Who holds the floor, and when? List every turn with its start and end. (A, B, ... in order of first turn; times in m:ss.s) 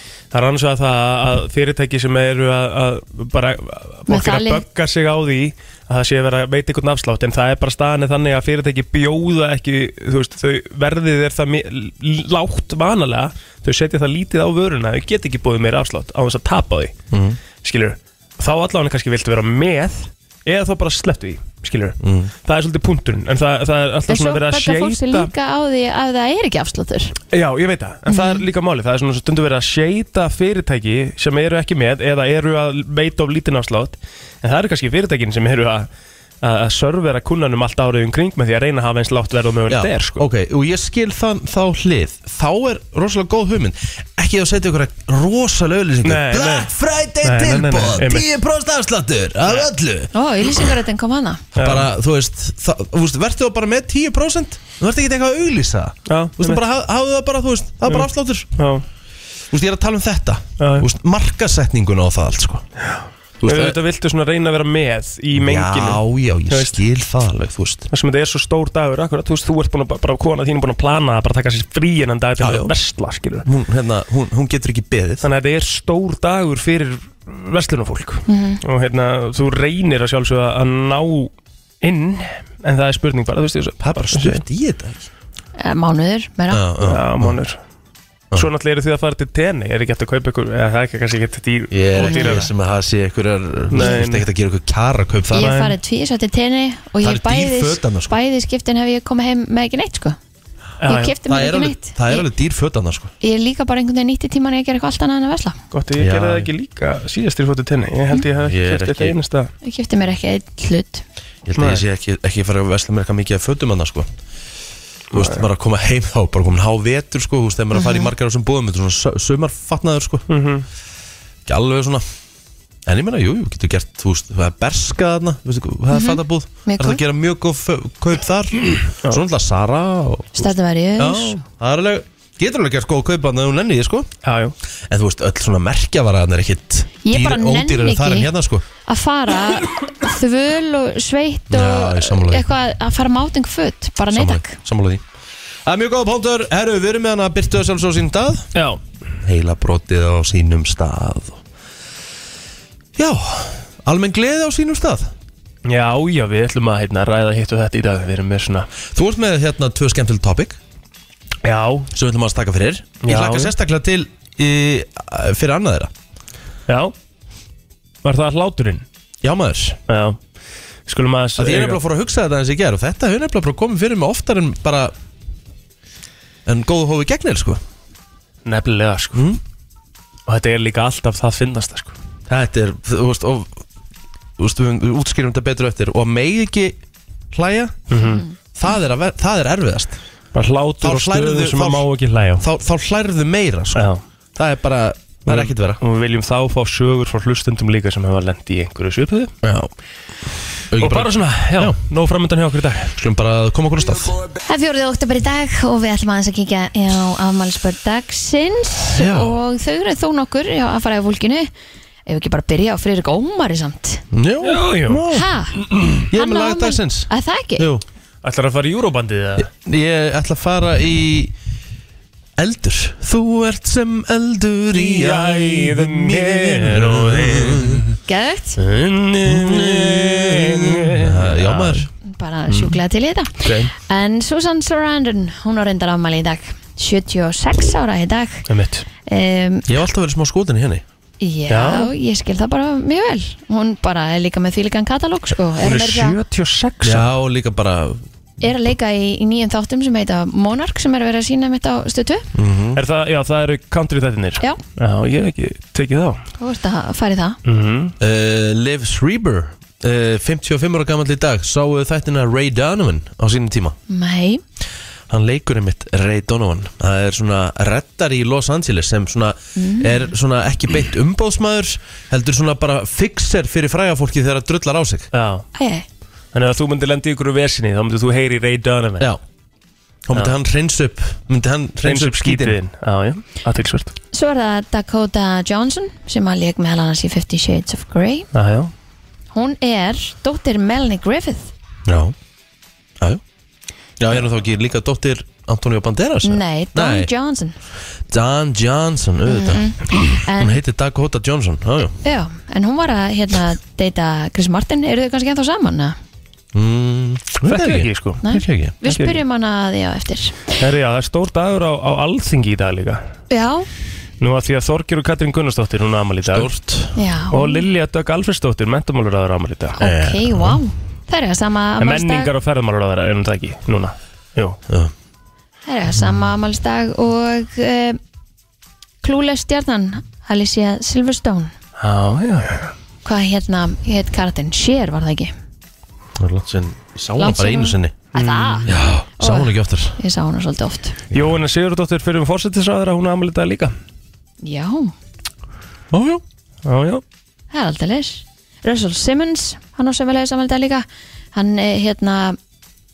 0:00.3-0:16.9 A
0:04.1-0:04.6 B
0:17.1-0:17.4 C
0:17.6-0:25.3 A
0:22.0-0:22.3 C
0:24.1-0:27.1 B
0:27.3-0:35.9 A
0:28.1-0:28.4 B
0:36.4-0:40.3 A
0:39.7-0:50.7 C
0:46.0-0:46.7 A
0:47.2-0:48.3 A
0:50.1-0:51.4 B
0:51.6-0:51.9 A
0:51.6-0:58.5 C
0:56.1-0:56.6 A
0:57.8-0:58.8 A
0:59.5-1:02.6 C
1:00.6-1:00.9 A
1:02.8-1:06.8 A
1:03.4-1:03.8 C
1:05.3-1:07.9 C
1:07.9-1:13.4 A
1:12.4-1:12.7 C
1:13.4-1:15.2 C
1:15.2-1:24.4 A
1:18.3-1:18.6 B
1:23.8-1:25.1 C
1:25.6-1:26.6 B
1:26.5-1:27.4 C
1:26.8-1:27.6 A
1:28.3-1:32.5 A
1:31.7-1:35.6 C
1:32.0-1:32.4 B
1:33.7-1:34.2 A
1:35.3-1:40.2 B
1:35.3-1:35.8 A
1:37.0-1:38.1 C
1:40.8-1:41.1 A
1:40.8-1:42.3 B
1:41.2-1:43.1 C
1:43.2-1:45.6 B
1:45.7-1:49.5 A
1:46.0-1:46.5 C
1:48.4-1:49.2 C
1:49.6-1:51.0 B
1:51.4-1:54.1 C
1:51.6-1:51.8 A
1:55.1-2:00.2 C
1:55.1-1:55.4 A
1:57.7-1:58.1 B
2:00.3-2:00.6 A
2:01.4-2:02.0 C
2:02.8-2:14.1 C
2:05.9-2:07.0 B
2:10.4-2:11.4 B
2:14.2-2:14.5 A
2:14.9-2:18.6 C
2:17.0-2:18.3 B
2:18.8-2:24.6 B
2:21.5-2:22.5 C
2:24.1-2:25.0 C
2:25.6-2:28.5 C
2:28.5-2:28.8 A
2:29.2-2:31.4 C
2:33.0-2:35.1 C
2:35.6-2:38.7 A
2:38.9-2:40.6 C
2:41.4-2:41.9 A
2:41.9-2:45.9 C
2:43.0-2:43.5 A
2:46.7-2:46.9 A
2:48.0-2:48.8 A
2:49.2-2:49.8 C
2:49.9-2:50.2 A
2:50.9-2:51.8 A
2:51.4-2:54.9 C
2:56.4-2:57.6 C
2:58.4-2:59.3 A
2:59.1-2:59.4 C
3:00.3-3:01.9 A
3:02.3-3:03.6 C
3:04.4-3:06.8 C
3:07.3-3:07.8 C
3:07.9-3:08.2 A
3:08.0-3:08.3 B
3:08.5-3:10.0 C
3:10.3-3:12.4 A
3:10.8-3:11.9 C
3:12.4-3:15.8 C
3:13.7-3:14.0 A
3:15.2-3:19.3 A
3:19.4-3:19.7 C
3:20.7-3:21.8 C
3:20.8-3:23.0 A
3:23.0-3:24.2 C
3:24.5-3:31.5 B
3:28.9-3:29.3 C
3:32.1-3:34.0 B
3:34.1-3:35.3 C
3:34.4-3:36.0 A
3:35.1-3:35.6 B
3:36.1-3:37.8 C
3:36.1-3:37.7 B
3:38.2-3:39.5 A
3:39.4-3:41.3 C
3:42.4-3:47.9 C
3:44.7-3:47.8 A
3:48.1-3:48.6 B
3:48.6-3:51.9 A
3:49.2-3:51.9 C
3:52.1-3:58.4 B
3:52.5-3:52.8 A
3:53.4-3:53.7 A
3:58.5-3:58.8 A
3:59.0-3:59.7 B
3:59.7-4:00.8 C
4:01.2-4:06.2 B
4:01.5-4:01.9 A
4:05.6-4:07.1 A
4:06.8-4:08.0 C
4:08.4-4:12.3 B
4:12.3-4:12.8 C
4:12.7-4:16.2 A
4:16.4-4:17.4 B
4:17.4-4:17.9 A
4:18.0-4:23.8 C
4:23.9-4:24.4 B
4:25.1-4:35.1 C
4:29.6-4:30.1 B
4:35.1-4:35.4 A
4:35.5-4:35.8 B
4:36.3-4:39.1 A
4:40.0-4:42.6 C
4:41.8-4:43.9 A
4:44.1-4:48.3 B
4:48.3-4:48.7 A
4:49.3-4:51.5 B
4:51.8-4:52.2 C
4:54.0-4:57.1 C
4:56.2-4:57.5 B
4:58.1-5:02.0 C
4:59.3-5:00.6 B
5:02.0-5:06.0 B
5:06.5-5:08.8 C
5:07.4-5:08.2 A
5:08.2-5:10.4 B
5:08.8-5:09.2 A
5:10.6-5:13.0 A
5:13.3-5:13.7 B
5:14.2-5:16.5 A
5:16.2-5:17.0 C
5:17.0-5:17.6 B
5:17.3-5:19.8 A
5:19.8-5:20.6 C
5:19.8-5:22.3 B
5:21.8-5:24.6 A
5:25.6-5:28.0 B
5:29.0-5:31.5 B
5:31.8-5:32.7 A
5:33.0-5:35.3 B
5:36.2-5:37.9 C
5:37.2-5:38.7 B
5:38.1-5:38.7 A
5:38.7-5:40.0 C
5:39.2-5:41.0 B
5:41.1-5:43.7 A
5:44.4-5:44.9 B
5:45.9-5:46.2 C
5:46.6-5:47.0 A
5:47.5-5:52.4 B